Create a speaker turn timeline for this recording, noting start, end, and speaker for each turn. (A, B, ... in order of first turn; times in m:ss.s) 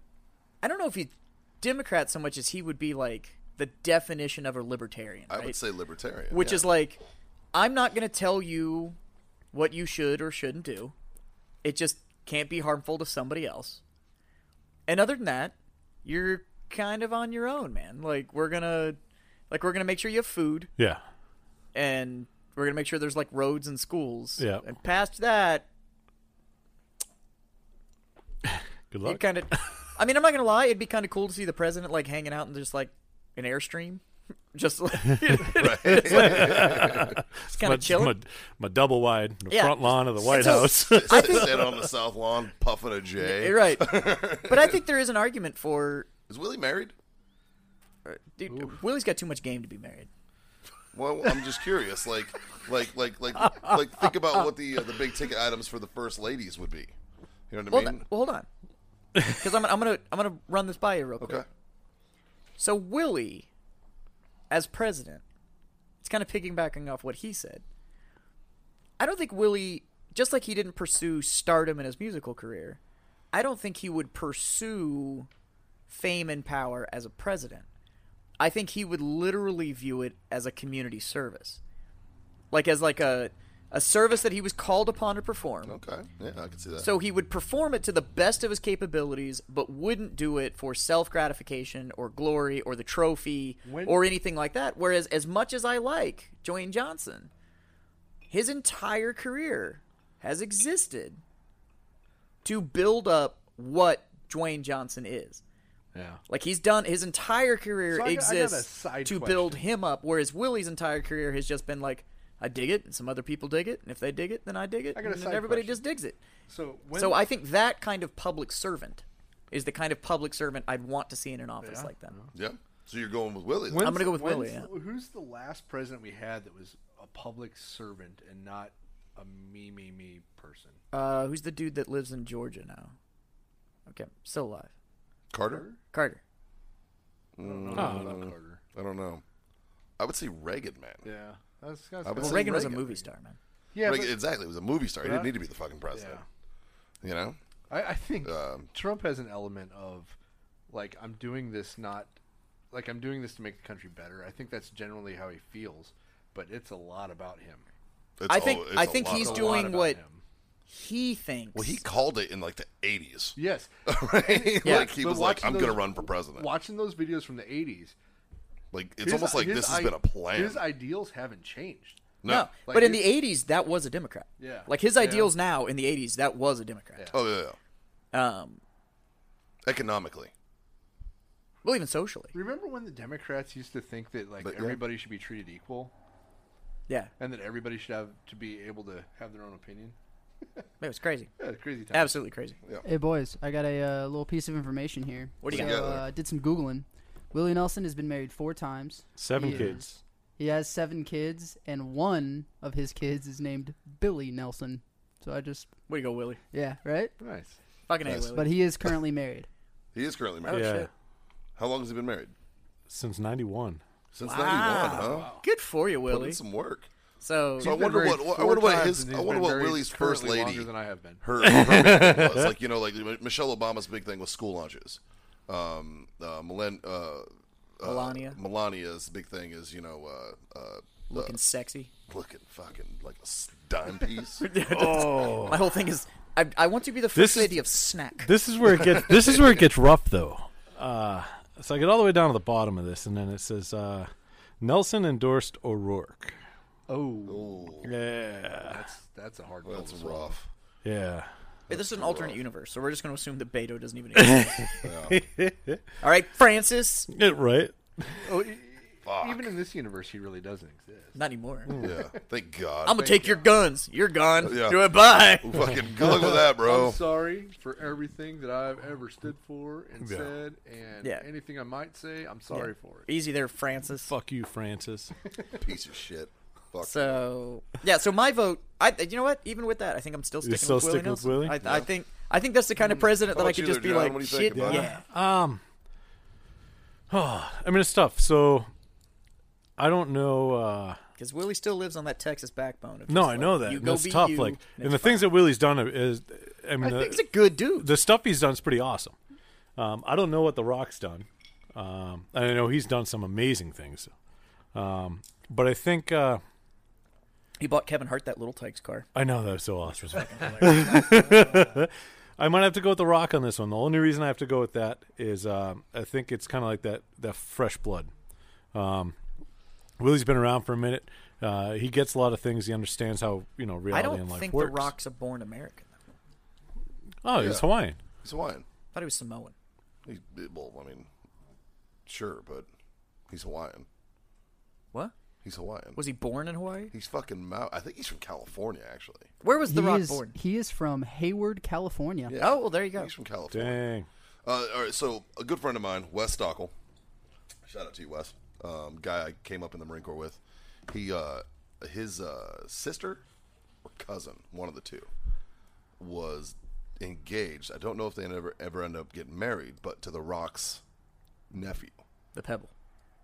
0:00.6-0:05.6 A
0:05.3-0:06.7 B
0:06.3-0:07.0 A
0:07.5-0:09.0 A
0:09.5-0:10.9 A
0:11.6-0:13.8 A
0:14.9-0:19.0 A
0:19.5-0:20.7 A
0:21.7-0:25.7 A
0:28.5-0:29.7 C
0:29.0-0:34.0 A
0:34.5-0:36.8 A
0:35.6-0:37.1 B
0:35.8-0:41.9 C
0:37.5-0:38.2 A
0:39.5-0:41.6 A
0:40.3-0:44.7 B
0:43.2-0:46.1 A
0:46.3-0:46.9 B
0:48.0-0:50.1 A
0:48.5-0:48.8 D
0:50.9-0:56.9 B
0:57.5-0:58.0 B
0:57.7-0:58.5 A
0:59.3-1:01.4 A
1:01.2-1:01.4 B
1:02.6-1:03.5 A
1:04.5-1:05.2 A
1:06.0-1:07.6 A
1:09.0-1:12.8 A
1:13.3-1:15.3 A
1:15.9-1:17.6 A
1:18.4-1:21.6 A
1:22.5-1:25.8 A
1:25.6-1:26.9 B
1:26.8-1:37.3 A
1:33.6-1:34.1 D
1:38.3-1:41.2 A
1:42.4-1:45.4 A
1:45.9-1:46.2 D
1:46.3-1:56.2 A
1:47.9-1:49.7 D
1:54.9-1:55.8 D
1:56.5-1:57.3 D
1:57.0-2:02.2 A
2:01.6-2:02.3 D
2:02.3-2:03.9 B
2:03.7-2:10.8 D
2:03.8-2:04.7 A
2:10.9-2:12.9 A
2:13.9-2:14.7 A
2:15.3-2:15.6 B
2:15.4-2:15.8 D
2:15.9-2:16.2 A
2:17.4-2:19.2 B
2:17.4-2:18.6 D
2:17.7-2:18.2 C
2:20.0-2:21.0 B
2:21.0-2:23.1 D
2:22.0-2:22.5 B
2:22.2-2:23.4 A
2:23.7-2:24.3 D
2:23.8-2:26.2 B
2:24.9-2:26.2 D
2:27.0-2:27.4 B
2:27.7-2:30.2 D
2:28.2-2:28.7 B
2:30.7-2:32.1 D
2:32.7-2:37.6 D
2:38.2-2:39.6 B
2:38.3-2:40.0 A
2:39.0-2:40.2 D
2:40.7-2:41.8 A
2:41.5-2:46.5 B
2:43.4-2:47.9 D
2:44.6-2:44.9 A
2:48.7-2:50.6 B
2:49.0-2:53.2 D
2:52.2-2:52.5 B
2:52.2-2:57.1 A
2:54.4-2:55.3 D
2:57.0-2:57.3 D
2:57.1-2:57.6 B
2:58.1-2:58.6 A
2:59.6-3:00.3 B
3:01.6-3:02.3 A
3:02.3-3:05.9 D
3:04.4-3:04.8 B
3:07.2-3:10.0 D
3:10.8-3:11.3 A
3:11.4-3:12.2 D
3:11.9-3:12.6 A
3:12.8-3:25.7 E
3:15.4-3:15.9 A
3:15.5-3:16.0 B
3:19.2-3:20.0 C
3:25.9-3:26.4 A
3:26.5-3:27.2 E
3:27.2-3:27.6 D
3:27.9-3:28.5 A
3:28.3-3:29.5 E
3:29.9-3:30.6 B
3:30.5-3:30.9 A
3:30.5-3:30.9 C
3:31.6-3:32.3 B
3:32.9-3:33.8 C
3:34.1-3:35.3 B
3:34.2-3:36.4 A
3:35.0-3:35.4 D
3:36.1-3:36.9 B
3:37.2-3:37.8 A
3:37.6-3:41.3 D
3:37.6-3:40.7 B
3:41.2-3:47.3 B
3:41.4-3:42.5 C
3:47.8-3:51.4 B
3:47.8-3:48.4 A
3:51.1-3:51.9 A
3:52.1-3:54.4 B
3:54.4-3:58.3 A
3:54.7-3:55.6 C
3:57.1-3:57.6 C
3:58.2-4:06.4 C
4:06.9-4:07.7 D
4:07.3-4:07.9 B
4:07.8-4:08.8 C
4:08.6-4:10.4 D
4:09.6-4:10.5 B
4:10.8-4:11.3 C
4:11.7-4:12.4 B
4:11.7-4:14.6 A
4:14.2-4:15.8 C
4:14.8-4:15.2 B
4:16.0-4:17.1 A
4:17.1-4:18.2 C
4:18.2-4:21.2 D
4:19.0-4:19.5 B
4:21.2-4:21.7 A
4:21.7-4:22.2 D
4:21.8-4:23.0 B
4:22.8-4:25.6 A
4:22.9-4:23.5 D
4:24.4-4:24.9 B
4:25.4-4:27.0 B
4:26.0-4:33.1 D
4:30.0-4:30.4 C
4:32.5-4:34.1 A
4:34.1-4:35.1 C
4:35.6-4:37.2 B
4:36.8-4:45.0 A
4:40.4-4:41.6 C
4:41.6-4:41.9 B
4:43.1-4:44.8 B
4:44.5-4:45.6 C
4:47.1-4:48.7 C
4:49.8-4:51.0 C
4:51.2-4:55.3 A
4:53.1-4:59.1 C
4:56.8-4:57.9 A
4:59.8-5:04.1 C
5:04.7-5:06.4 C
5:07.6-5:09.1 A
5:09.1-5:18.1 C
5:10.3-5:11.2 A
5:18.7-5:19.1 C
5:20.0-5:24.9 C
5:23.9-5:26.0 A
5:27.2-5:28.0 C
5:27.3-5:27.7 B
5:28.2-5:28.6 B
5:28.9-5:29.5 A
5:30.0-5:31.1 B
5:32.0-5:32.7 B
5:33.3-5:33.8 B
5:35.4-5:36.0 B
5:35.9-5:36.9 A
5:36.9-5:39.3 B
5:39.4-5:40.4 A
5:39.6-5:42.4 E
5:42.3-5:43.8 B
5:42.3-5:43.1 A
5:43.5-5:44.1 C
5:44.4-5:46.7 B
5:47.7-5:53.2 B
5:53.8-5:55.1 B
5:56.0-6:00.8 B
6:01.5-6:02.0 B
6:02.3-6:02.7 A